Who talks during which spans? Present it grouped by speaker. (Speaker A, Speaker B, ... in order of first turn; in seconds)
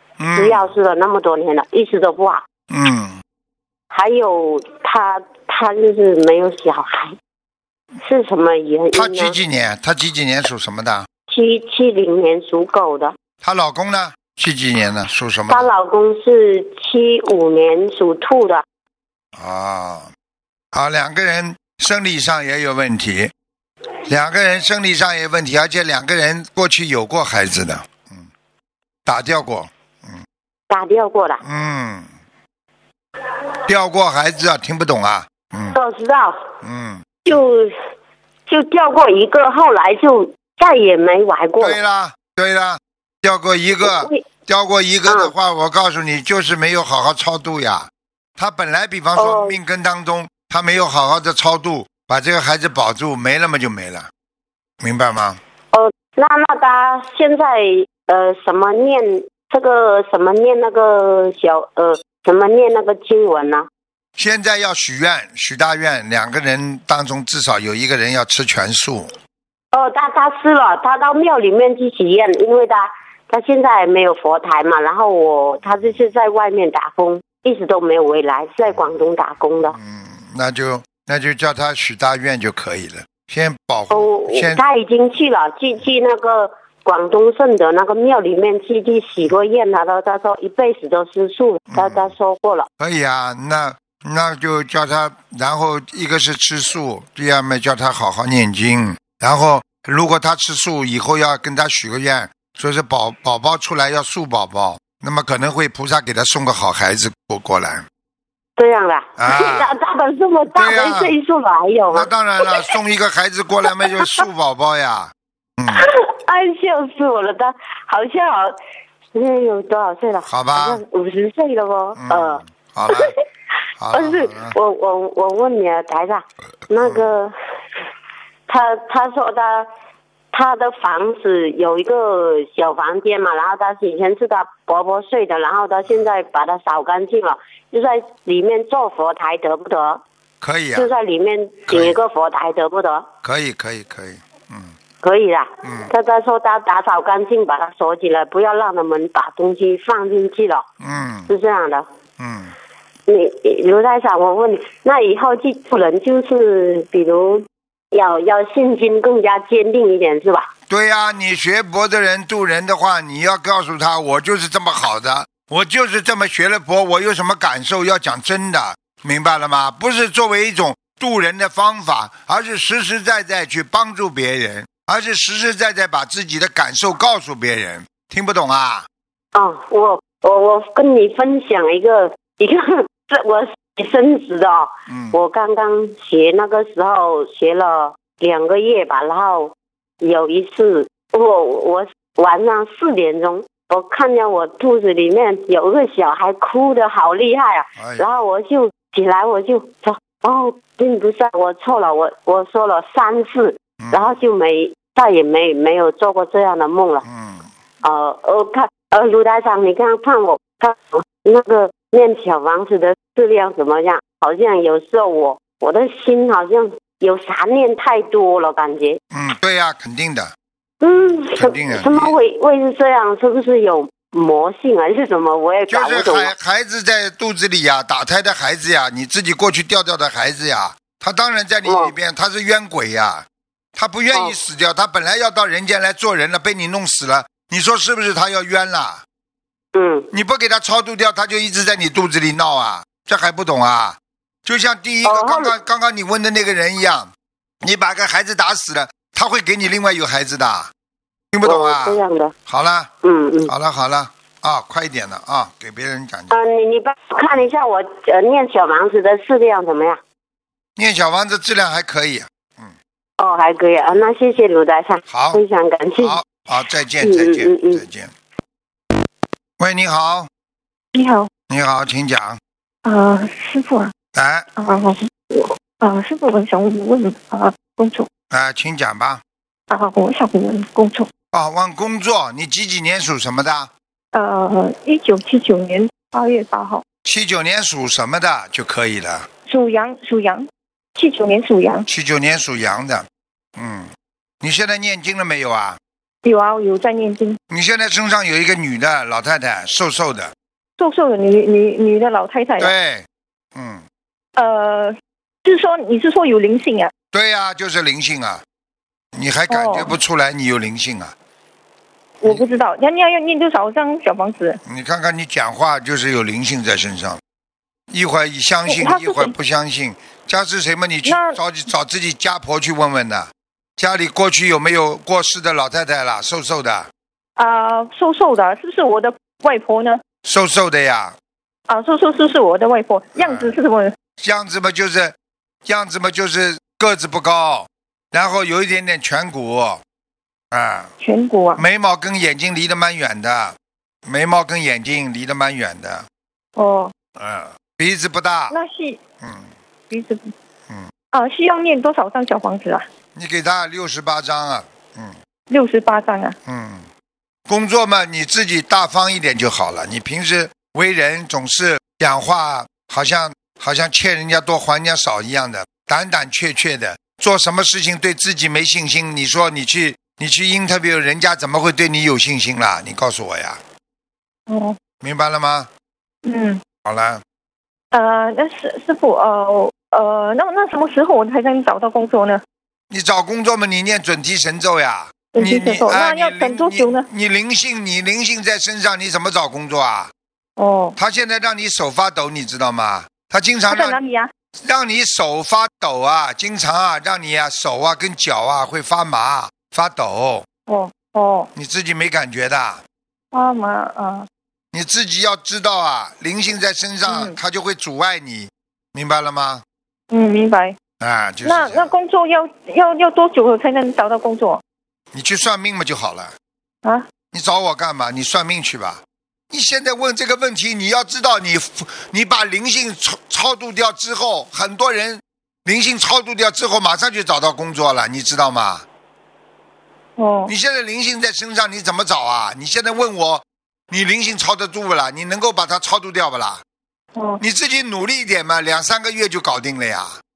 Speaker A: 0.2-0.7, 2.7-3.2, 8.9-11.1, 13.4-15.7, 19.4-20.1, 20.7-23.3, 24.1-28.2, 29.1-30.2, 31.4-32.1, 33.7-35.8, 36.6-37.4, 41.6-54.1, 54.8-55.4, 64.2-69.1, 79.7-84.6, 91.7-92.1, 92.8-107.8, 109.2-109.8, 110.5-111.1, 111.9-115.8, 120.2-120.8, 122.0-123.1, 123.8-124.5, 126.8-127.2, 140.4-140.9, 141.7-142.0, 143.2-144.7, 145.6-145.9, 150.8-151.3, 152.2-152.5, 160.7-178.9, 184.9-185.2, 197.8-198.2, 203.8-204.2, 207.1-207.5, 219.1-220.3, 221.1-222.2, 225.7-239.0, 240.1-250.7, 251.3-252.9, 253.5-256.4, 260.8-262.7, 265.1-265.4, 266.0-268.1, 269.6-270.3, 271.5-272.4, 274.1-274.6, 278.3-279.2, 281.3-283.7, 287.1-289.3, 291.9-293.9, 294.4-295.8, 297.5-300.3, 302.6-303.8, 307.1-308.4, 309.1-311.1, 314.6-317.2, 317.9-326.9, 330.2-331.1, 333.2-333.5, 334.2-339.8, 340.5-340.9, 341.6-346.1, 347.2-348.6, 349.2-349.5, 353.2-355.1, 356.5-356.9, 357.5-373.6, 375.0-375.7, 376.9-377.2, 382.9-390.1, 391.0-394.0, 394.6-400.5, 401.6-402.8, 404.7-409.6, 411.0-411.9, 415.1-416.3, 417.3-428.8, 430.5-436.6, 437.4-440.2
Speaker B: 0.3-2.4, 3.9-7.1, 8.0-9.4, 11.3-13.1, 15.5-18.6, 30.7-31.4, 35.7-36.4, 37.2-37.8, 38.5-41.8, 43.8-44.2, 45.1-45.3, 49.2-49.6, 55.7-63.7, 69.7-79.8, 83.9-92.7, 108.6-112.6, 113.8-114.2, 115.7-118.6, 119.1-123.1, 123.9-127.3, 128.5-129.7, 130.3-140.0, 140.8-143.1, 145.0-150.7, 151.3-151.9, 153.1-160.5, 179.3-207.1, 207.8-219.0, 220.8-226.3, 231.7-231.9, 234.1-234.4, 239.7-240.1, 245.0-245.5, 251.4-252.3, 253.0-253.5, 256.3-260.0, 263.2-266.2, 267.0-267.8
Speaker C: 270.9-271.3, 272.9-273.9, 274.6-278.1, 279.7-281.1, 284.1-286.8, 289.5-291.9, 296.2-297.4, 300.8-302.7, 304.4-304.9, 305.4-306.9, 309.5-309.9, 312.2-314.6, 318.7-319.3, 321.1-321.4, 327.4-330.0, 331.7-333.9, 341.0-341.6, 346.6-346.9, 348.5-349.0, 349.9-350.3, 351.1-352.8, 355.5-356.4, 374.5-374.8, 376.2-376.6, 377.9-382.4, 385.3-387.1, 390.6-391.0, 393.7-394.3, 400.7-401.5, 403.3-404.3, 407.1-407.4, 410.1-410.8, 411.4-414.6, 430.2-430.5, 437.2-437.4